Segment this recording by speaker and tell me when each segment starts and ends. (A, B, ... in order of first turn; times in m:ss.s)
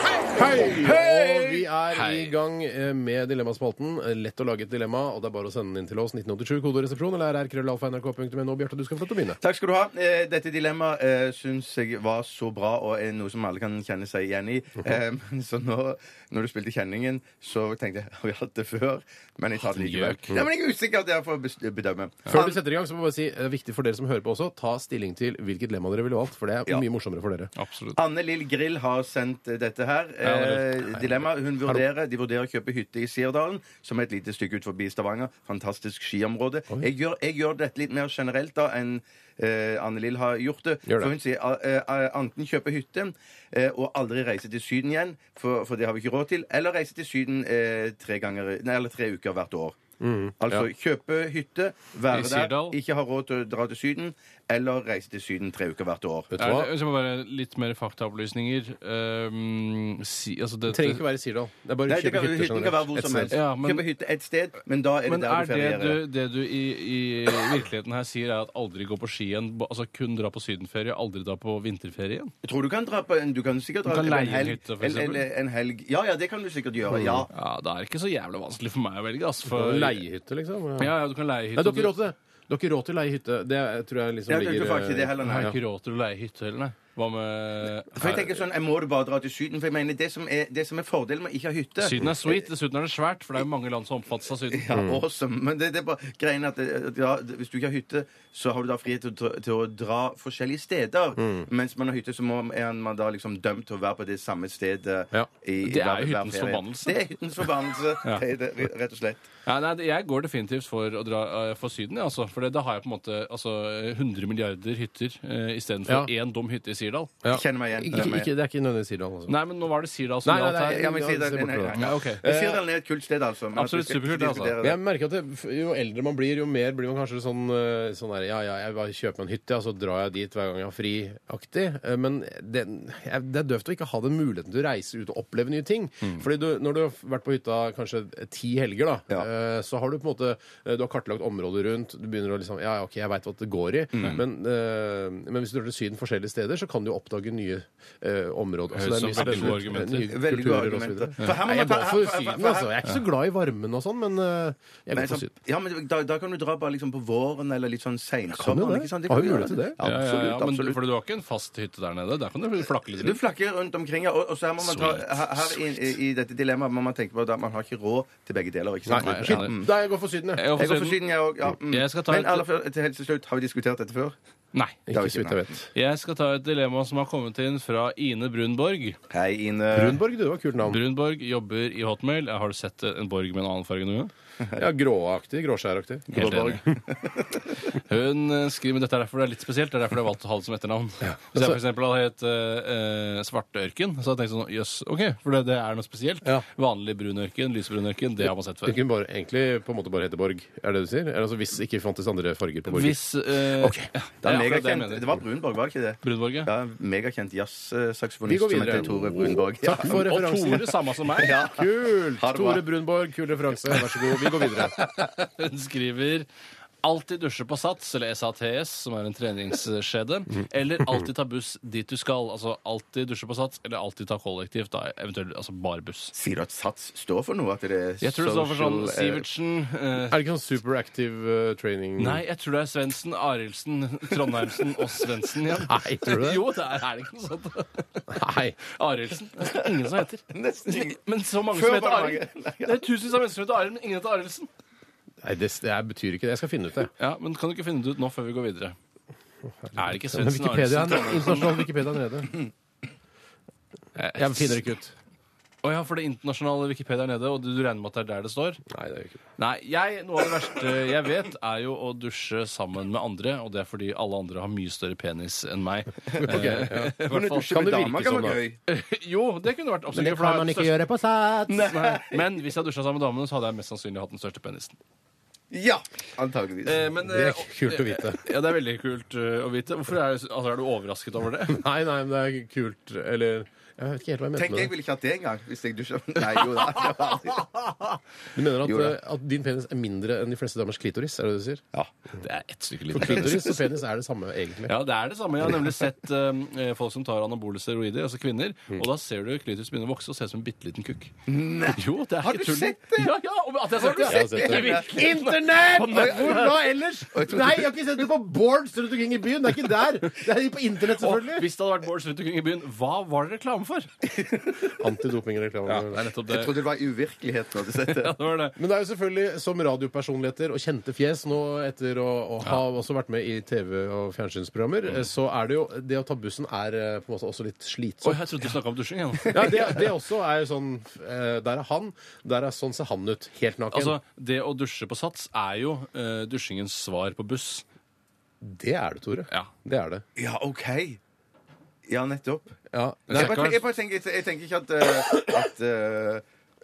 0:00.3-0:09.4 A
0:01.9-0:02.3 B
0:09.4-0:22.6 C
0:19.6-0:20.4 B
0:22.3-0:27.5 A
0:27.6-0:28.0 B
0:27.9-0:49.8 C
0:30.2-0:31.2 B
0:50.0-0:50.6 A
0:50.4-0:56.3 C
0:52.1-0:52.8 B
0:56.3-0:56.7 A
0:56.4-1:01.0 B
1:00.7-1:03.4 A
1:01.9-1:06.0 C
1:03.3-1:03.9 B
1:05.0-1:12.3 B
1:12.4-1:17.3 C
1:13.8-1:15.2 B
1:16.9-1:17.2 A
1:17.3-1:20.0 B
1:19.4-1:20.9 A
1:20.8-1:21.9 B
1:21.5-1:25.6 A
1:24.3-1:25.6 C
1:25.2-1:28.1 B
1:27.9-1:32.4 C
1:31.8-1:34.7 B
1:34.5-1:49.3 C
1:34.7-1:35.0 A
1:41.2-1:41.5 A
1:45.6-1:47.0 B
1:49.4-1:57.2 B
1:57.2-1:59.3 A
1:57.3-1:58.3 C
1:59.3-2:01.0 B
2:00.2-2:02.6 A
2:00.7-2:04.8 C
2:01.7-2:02.2 B
2:03.5-2:04.5 B
2:04.6-2:35.3 A
2:23.9-2:24.2 C
2:28.7-2:30.1 B
2:29.2-2:32.7 C
2:34.9-2:40.8 C
2:38.3-2:39.8 A
2:39.8-2:43.2 B
2:43.0-2:49.7 C
2:44.6-2:45.6 B
2:48.8-2:50.4 A
2:49.0-2:49.5 B
2:50.4-2:51.0 B
2:50.5-2:54.1 C
2:51.7-2:52.4 B
2:54.5-2:54.9 B
2:54.9-2:55.7 A
2:54.9-2:55.4 C
2:55.7-2:59.0 B
2:59.1-3:00.0 C
2:59.7-3:00.8 A
3:00.6-3:04.1 B
3:04.5-3:06.2 A
3:06.1-3:06.6 B
3:06.1-3:07.5 C
3:07.9-3:18.8 B
3:11.0-3:11.6 A
3:18.6-3:23.0 A
3:22.7-3:25.2 B
3:23.6-3:23.9 A
3:24.2-3:30.0 C
3:26.0-3:26.5 B
3:28.2-3:34.8 A
3:29.8-3:31.4 B
3:31.2-3:32.6 C
3:33.9-3:36.3 B
3:36.8-3:46.1 B
3:46.1-3:49.2 C
3:48.0-3:50.2 B
3:50.1-3:52.2 A
3:52.0-4:04.5 B
3:55.6-3:56.4 A
3:58.1-3:58.6 A
4:00.3-4:02.8 C
4:05.2-4:06.9 A
4:07.0-4:08.8 B
4:09.6-4:12.3 A
4:09.7-4:11.7 B
4:14.0-4:14.6 B
4:14.1-4:14.9 A
4:15.6-4:18.6 B
4:18.7-4:19.2 A
4:19.4-4:27.9 B
4:26.2-4:27.0 A
4:26.2-4:28.6 C
4:27.5-4:28.4 A
4:28.7-4:30.8 B
4:29.9-4:31.6 A
4:31.5-4:32.2 C
4:31.6-4:34.8 B
4:35.5-4:36.9 C
4:36.6-4:41.6 B
4:37.0-4:38.2 A
4:41.5-4:44.7 A
4:44.4-4:47.7 C
4:48.3-4:51.6 A
4:48.6-4:48.9 C
4:52.2-4:53.5 B
4:52.9-4:54.7 A
4:53.0-4:53.5 C
4:54.7-5:01.1 B
5:01.3-5:03.1 C
5:01.7-5:06.6 B
5:03.8-5:05.2 C
5:04.0-5:11.4 A
5:05.8-5:08.0 C
5:11.0-5:13.9 B
5:14.1-5:14.7 C
5:14.8-5:16.0 A
5:15.7-5:16.6 B
5:16.2-5:18.2 C
5:17.8-5:18.6 B
5:18.6-5:28.2 A
5:28.0-5:29.8 B
5:29.3-5:34.0 A
5:33.7-5:37.6 B
5:38.4-5:40.0 A
5:40.2-5:41.0 C
5:41.8-5:42.5 C
5:42.7-5:43.6 A
5:43.1-5:43.6 B
5:43.1-5:46.2 C